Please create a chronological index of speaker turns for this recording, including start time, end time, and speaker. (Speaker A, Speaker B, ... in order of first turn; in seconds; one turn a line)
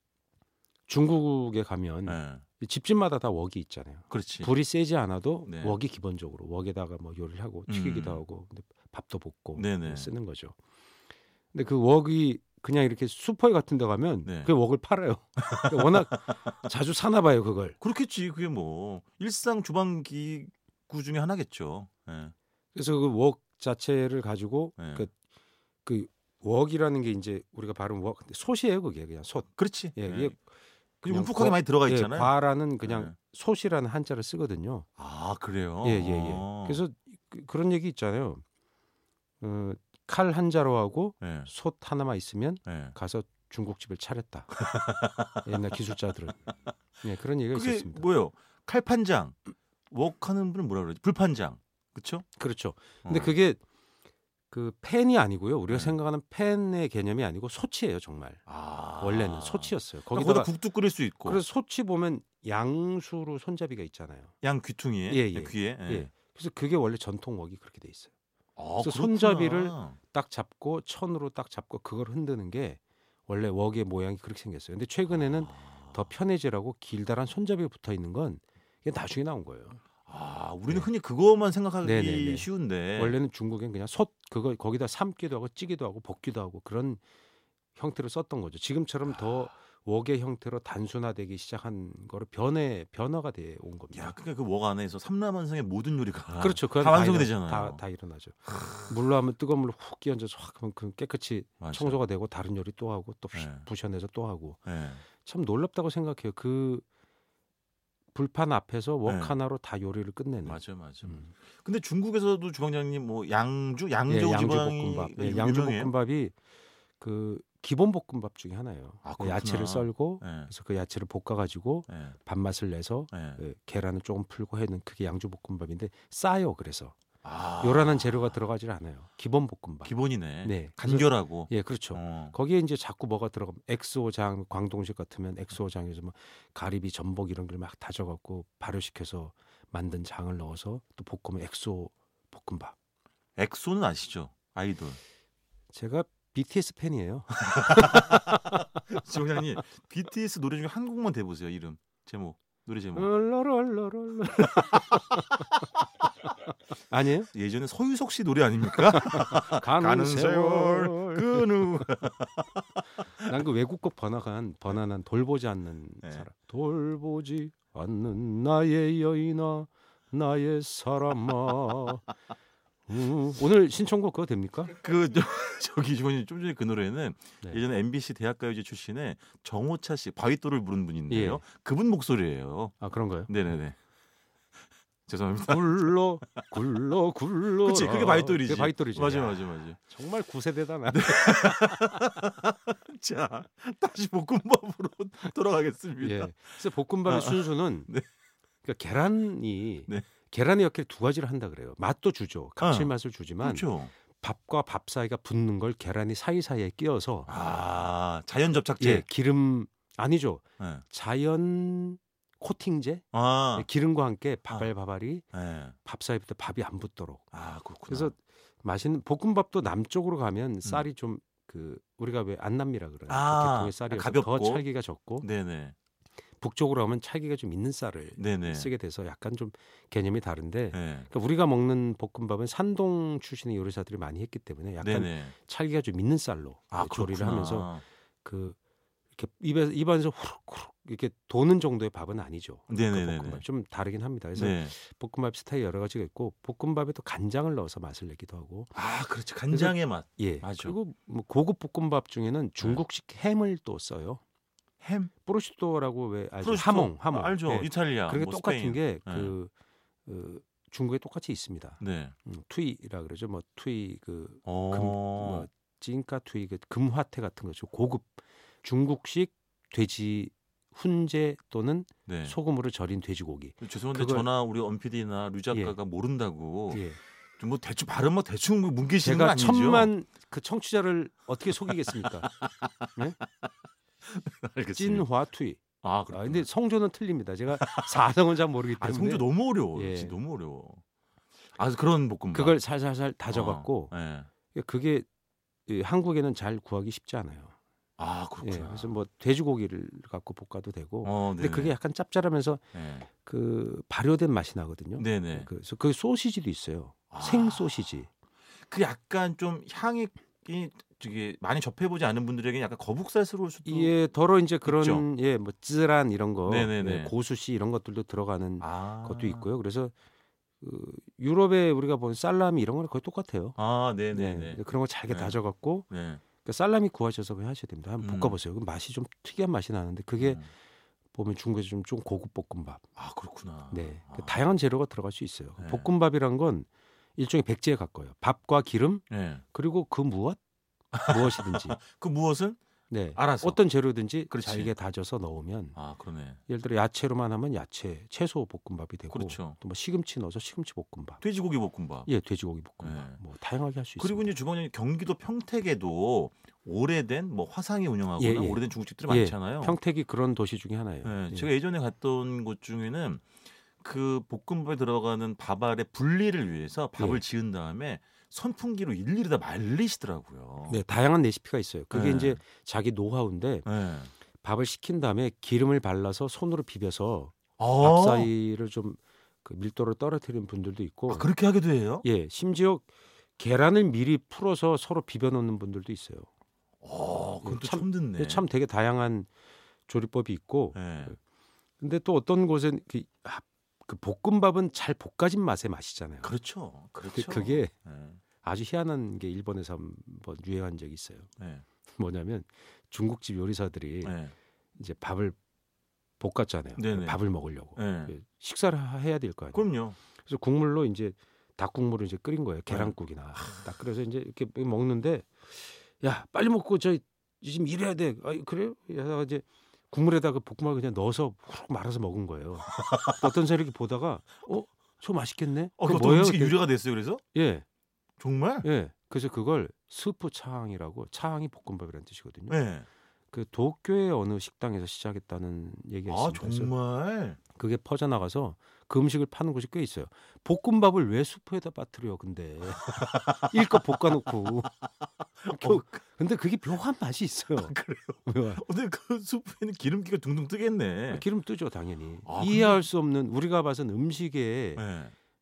Speaker A: 0.9-10.5
Speaker B: 2.1-2.4
Speaker B: 4.1-4.5
Speaker B: 5.5-5.8
Speaker B: 7.7-8.2
Speaker B: 9.6-10.1
Speaker A: 11.5-17.8
Speaker B: 14.2-14.5
Speaker B: 15.4-16.5
Speaker B: 17.8-22.3
Speaker A: 22.8-25.1
Speaker B: 24.8-25.0
Speaker A: 25.8-30.4
Speaker B: 29.6-30.3
Speaker A: 31.0-34.9
Speaker B: 31.0-33.1
Speaker B: 35.0-36.8
Speaker A: 35.8-38.4
Speaker A: 39.4-44.5
Speaker B: 41.2-41.5
Speaker B: 42.6-43.0
Speaker B: 44.6-45.8
Speaker A: 45.4-48.0
Speaker B: 47.5-49.4
Speaker B: 49.9-52.2
Speaker A: 52.4-53.6
Speaker B: 53.0-53.4
Speaker A: 54.5-58.4
Speaker B: 55.7-56.0
Speaker B: 58.5-61.4
Speaker A: 59.0-60.5
Speaker A: 61.2-64.3
Speaker B: 64.4-66.1
Speaker A: 65.1-68.1
Speaker B: 68.6-70.0
Speaker A: 68.8-79.8
Speaker B: 75.1-75.9
Speaker B: 80.1-83.2
Speaker A: 81.8-87.0
Speaker A: 87.8-94.1
Speaker B: 89.1-89.5
Speaker B: 93.9-97.8
Speaker A: 96.4-104.6
Speaker B: 98.6-98.9
Speaker B: 101.6-102.0
Speaker B: 103.3-103.6
Speaker B: 104.7-105.0
Speaker A: 105.2-106.8
Speaker A: 108.1-111.3
Speaker B: 109.0-109.3
Speaker B: 110.4-115.9
Speaker A: 114.1-116.3
Speaker A: 117.0-126.9
Speaker B: 119.0-120.5
Speaker B: 121.9-122.2
Speaker B: 123.1-123.4
Speaker B: 127.2-128.4
Speaker A: 127.6-142.8
Speaker B: 129.8-132.3
Speaker B: 143.4-145.0
Speaker A: 145.7-148.3
Speaker B: 147.4-153.1
Speaker A: 152.9-155.6
Speaker A: 156.9-157.3
Speaker B: 157.3-162.8
Speaker A: 158.9-161.5
Speaker A: 163.2-172.1
Speaker A: 172.9-174.7
Speaker B: 174.7-182.7
Speaker A: 181.1-181.4
Speaker A: 182.8-183.3
Speaker B: 183.3-183.8
Speaker B: 185.1-186.4
Speaker A: 185.5-191.4
Speaker B: 187.6-189.8
Speaker B: 190.9-198.0
Speaker A: 196.0-197.9
Speaker A: 198.6-207.3
Speaker B: 202.6-203.9
Speaker B: 207.3-209.0
Speaker A: 208.8-215.3
Speaker B: 210.6-210.8
Speaker B: 213.1-213.7
Speaker B: 215.3-215.8
Speaker A: 215.8-217.3
Speaker B: 217.3-218.1
Speaker A: 217.9-225.3
Speaker B: 223.1-224.6
Speaker B: 225.2-225.7
Speaker A: 226.4-238.6
Speaker B: 228.2-228.7
Speaker B: 230.7-231.1
Speaker B: 234.8-235.3
Speaker B: 236.7-237.8
Speaker A: 239.1-248.8
Speaker B: 242.7-243.4
Speaker B: 244.3-244.7
Speaker B: 248.8-250.8
Speaker A: 249.5-254.2
Speaker B: 254.8-255.1
Speaker A: 255.2-259.5
Speaker B: 256.4-259.4
Speaker A: 260.1-274.3
Speaker B: 261.8-262.1
Speaker B: 264.4-265.5
Speaker B: 272.1-272.4
Speaker B: 273.6-276.8
Speaker A: 276.7-277.0
Speaker B: 277.4-279.9
Speaker A: 279.0-282.3
Speaker B: 282.0-282.8
Speaker B: 284.1-285.1
Speaker A: 284.8-290.2
Speaker B: 285.8-286.5
Speaker B: 287.6-288.1
Speaker B: 288.8-290.8
Speaker B: 291.5-292.6
Speaker A: 292.3-293.9
Speaker B: 293.3-294.3
Speaker A: 294.5-295.1
Speaker A: 295.7-297.5
Speaker B: 298.0-298.9
Speaker A: 298.4-302.6
Speaker B: 301.0-301.8
Speaker B: 302.7-303.1
Speaker A: 303.1-308.1
Speaker B: 305.0-305.5
Speaker B: 307.1-307.9
Speaker B: 308.6-313.9
Speaker A: 313.6-319.9
Speaker B: 314.6-315.0
Speaker B: 316.4-317.1
Speaker B: 318.6-319.5
Speaker A: 320.6-323.6
Speaker B: 323.6-325.4
Speaker A: 324.1-325.9
Speaker B: 325.9-326.2
Speaker A: 326.4-330.4
Speaker B: 328.0-328.4
Speaker B: 330.2-330.5
Speaker A: 331.1-332.8
Speaker B: 333.0-334.4
Speaker A: 333.7-340.4
Speaker B: 335.6-335.9
Speaker B: 339.1-339.4
Speaker B: 340.9-342.6
Speaker A: 341.0-341.8
Speaker A: 342.9-345.8
Speaker B: 343.1-343.6
Speaker B: 344.3-344.7
Speaker B: 345.8-346.4
Speaker A: 346.5-351.2
Speaker B: 349.1-349.6
Speaker B: 351.2-352.1
Speaker A: 352.1-354.3
Speaker B: 352.8-353.2
Speaker B: 354.0-359.8
Speaker A: 358.2-361.5
Speaker B: 361.0-363.2
Speaker B: 363.8-370.8
Speaker A: 370.7-373.7
Speaker B: 371.9-372.4
Speaker B: 373.6-374.1
Speaker A: 374.4-381.3
Speaker B: 377.6-378.3
Speaker B: 381.1-382.0
Speaker A: 382.0-386.3
Speaker B: 386.8-388.4
Speaker A: 387.4-389.3
Speaker A: 389.9-391.1
Speaker B: 390.8-391.2
Speaker A: 391.8-396.3
Speaker B: 396.2-398.2
Speaker A: 397.1-397.7
Speaker A: 398.4-401.3
Speaker B: 401.4-401.6
Speaker A: 401.9-404.2
Speaker B: 404.0-404.3
Speaker A: 404.8-405.4
Speaker A: 406.2-409.6
Speaker B: 406.8-407.2
Speaker B: 407.8-408.1
Speaker B: 409.5-410.0
Speaker A: 410.2-426.6
Speaker B: 412.7-412.9
Speaker B: 422.8-423.2
Speaker B: 425.8-427.2
Speaker A: 427.3-427.6
Speaker B: 428.2-428.6
Speaker A: 428.6-432.6
Speaker B: 432.5-432.9
Speaker A: 433.3-436.7
Speaker B: 436.1-437.4
Speaker A: 437.6-444.7
Speaker B: 442.8-444.0
Speaker B: 445.4-446.0
Speaker A: 445.5-447.8
Speaker B: 447.5-451.2
Speaker A: 448.2-448.6
Speaker A: 451.1-454.8
Speaker B: 452.2-452.8
Speaker B: 454.8-455.1